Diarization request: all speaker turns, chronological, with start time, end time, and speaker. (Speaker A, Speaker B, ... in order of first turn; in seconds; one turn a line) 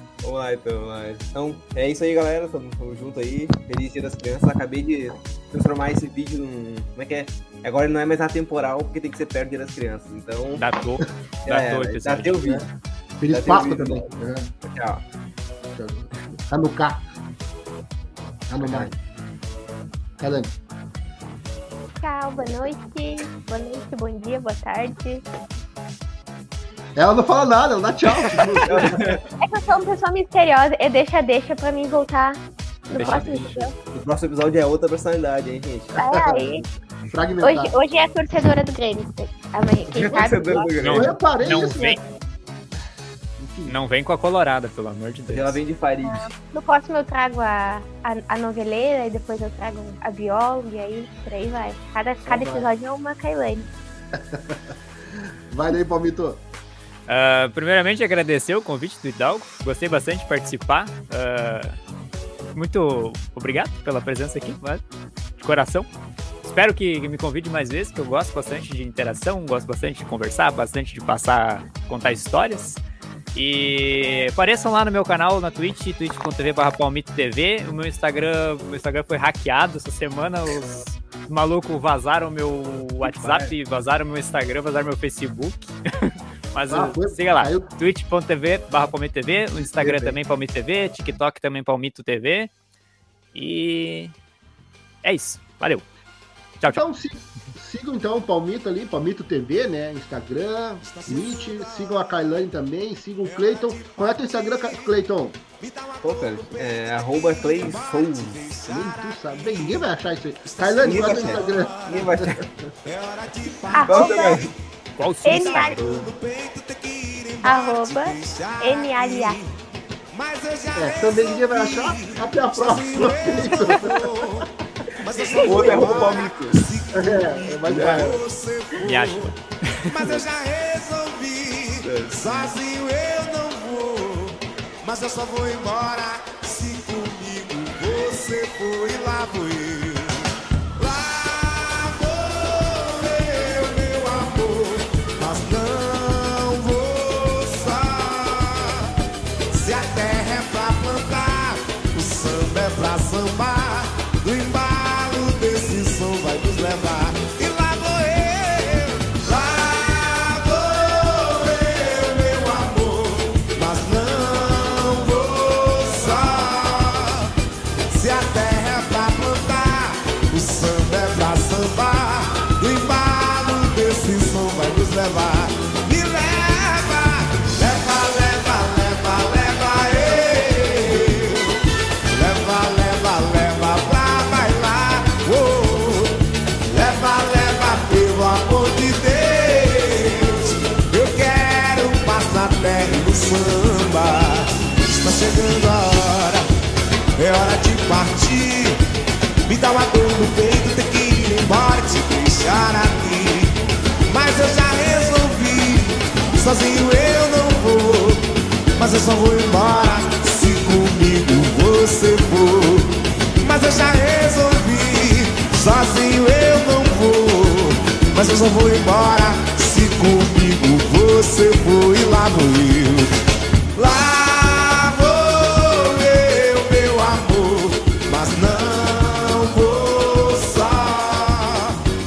Speaker A: 0.2-10.6
Speaker B: 10.6-12.5
Speaker A: 11.4-12.7
Speaker C: 13.2-14.5
Speaker A: 13.3-14.1
Speaker A: 14.6-15.0
Speaker C: 15.7-17.1
Speaker C: 18.5-18.9
Speaker C: 20.2-20.5
Speaker D: 22.0-25.2
Speaker C: 26.9-29.2
Speaker A: 28.6-29.2
Speaker D: 29.4-33.7
Speaker A: 32.9-36.4
Speaker D: 36.0-36.6
Speaker C: 36.1-37.8
Speaker D: 37.4-40.7
Speaker A: 39.9-41.2
Speaker B: 40.8-42.0
Speaker C: 40.9-42.0
Speaker C: 43.4-43.7
Speaker B: 43.7-45.6
Speaker A: 45.3-46.3
Speaker D: 46.0-53.7
Speaker C: 52.2-52.7
Speaker C: 54.1-56.4
Speaker B: 57.1-61.8
Speaker B: 62.5-64.8
Speaker B: 65.4-65.9
Speaker B: 66.4-72.8
Speaker B: 73.3-92.5
Speaker A: 83.0-83.5
Speaker C: 86.7-87.7
Speaker C: 89.8-90.2
Speaker B: 93.3-94.1
Speaker B: 95.0-95.8
Speaker B: 96.6-96.8
Speaker C: 96.7-105.4
Speaker E: 100.8-102.0
Speaker E: 103.2-104.9
Speaker E: 105.6-109.9
Speaker A: 106.0-108.4
Speaker C: 108.7-112.5
Speaker E: 110.4-112.2
Speaker A: 110.8-112.4
Speaker E: 112.8-114.4
Speaker D: 113.7-114.4
Speaker A: 113.9-114.5
Speaker B: 115.0-116.0
Speaker E: 115.0-119.5
Speaker D: 115.2-115.8
Speaker D: 117.4-119.4
Speaker E: 120.1-129.3
Speaker C: 120.8-124.5
Speaker A: 125.4-126.5
Speaker C: 125.5-126.0
Speaker C: 126.9-128.2
Speaker A: 127.7-128.2
Speaker B: 128.8-130.1
Speaker E: 129.8-148.9
Speaker A: 131.8-132.4
Speaker E: 149.5-167.3
Speaker E: 167.9-181.5
Speaker E: 182.1-186.2
Speaker E: 186.7-196.4
Speaker E: 197.2-198.8
Speaker E: 199.4-203.5
Speaker E: 204.1-208.2
Speaker E: 208.8-223.1
Speaker E: 223.7-231.8